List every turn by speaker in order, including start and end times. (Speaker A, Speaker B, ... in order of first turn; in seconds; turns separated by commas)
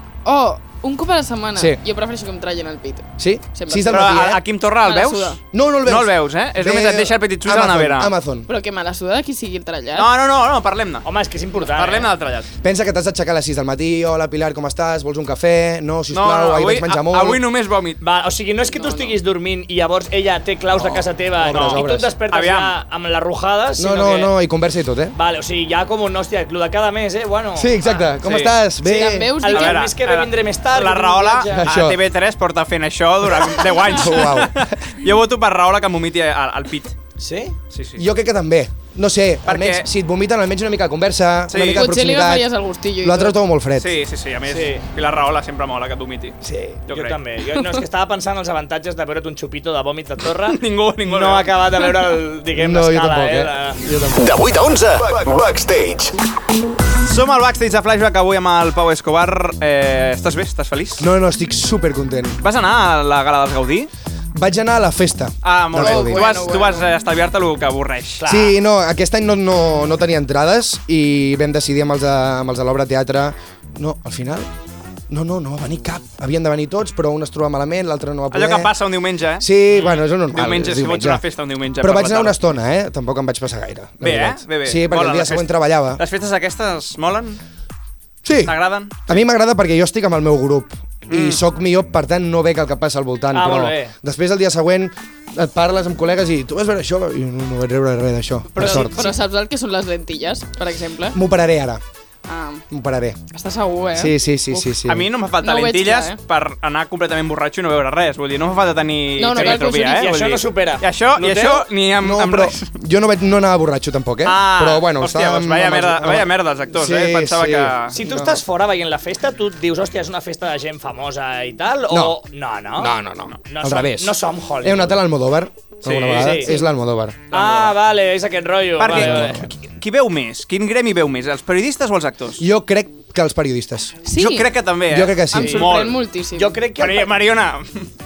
Speaker A: 0.2-4.3, Speaker B: 3.2-4.4, Speaker C: 3.9-8.1, Speaker A: 4.8-5.4, Speaker B: 5.5-8.5, Speaker A: 8.5-10.1, Speaker C: 9.9-11.0, Speaker D: 11.0-12.1, Speaker C: 11.6-12.5, Speaker B: 12.6-17.4, Speaker C: 16.1-18.0, Speaker D: 18.0-24.3, Speaker A: 18.7-19.1, Speaker B: 20.8-22.1, Speaker C: 21.5-22.8, Speaker B: 23.8-25.1, Speaker D: 25.1-28.1, Speaker B: 27.6-29.3, Speaker C: 28.2-28.6, Speaker A: 28.8-29.9, Speaker D: 29.4-31.7, Speaker C: 29.5-37.0, Speaker B: 31.6-32.0, Speaker B: 33.8-34.7, Speaker D: 37.2-37.5, Speaker C: 37.7-38.0, Speaker B: 38.0-44.0, Speaker C: 39.5-39.9, Speaker C: 41.5-41.9, Speaker A: 41.7-43.3, Speaker C: 43.8-46.4, Speaker D: 44.5-44.8, Speaker B: 46.4-46.8, Speaker C: 46.9-47.2, Speaker D: 46.9-53.8, Speaker C: 50.4-51.5, Speaker B: 52.5-54.3, Speaker E: 54.1-56.1, Speaker C: 57.0-61.0, Speaker B: 61.0-62.4, Speaker C: 62.4-63.9, Speaker B: 64.3-66.5, Speaker C: 65.4-68.3, Speaker A: 65.7-66.9, Speaker D: 68.2-68.5, Speaker B: 68.2-74.5, Speaker B: 75.1-78.7, Speaker C: 78.3-82.4, Speaker B: 79.4-81.2, Speaker B: 81.8-86.0, Speaker C: 84.0-87.4, Speaker B: 88.2-88.5, Speaker C: 88.4-89.2, Speaker B: 89.1-99.0, Speaker C: 91.1-91.4, Speaker D: 93.3-93.9, Speaker D: 98.5-99.1, Speaker A: 98.6-101.2, Speaker B: 101.1-101.8, Speaker A: 102.3-102.6, Speaker B: 102.7-103.2, Speaker A: 103.3-104.7, Speaker B: 103.9-105.1, Speaker C: 104.8-112.7, Speaker A: 105.4-106.2, Speaker A: 109.2-110.1, Speaker D: 109.3-111.7, Speaker B: 112.0-118.4, Speaker C: 114.2-118.0, Speaker D: 117.9-122.9, Speaker B: 121.9-122.2, Speaker B: 122.8-127.2, Speaker D: 123.5-125.0, Speaker C: 125.8-126.4, Speaker D: 125.9-126.6, Speaker C: 127.3-127.8, Speaker D: 127.3-129.5, Speaker C: 128.8-132.4, Speaker B: 128.9-129.5, Speaker B: 132.4-134.0, Speaker A: 134.0-134.5, Speaker C: 134.1-136.0, Speaker B: 134.9-135.7, Speaker A: 135.3-136.5, Speaker D: 136.3-137.1, Speaker C: 136.8-137.9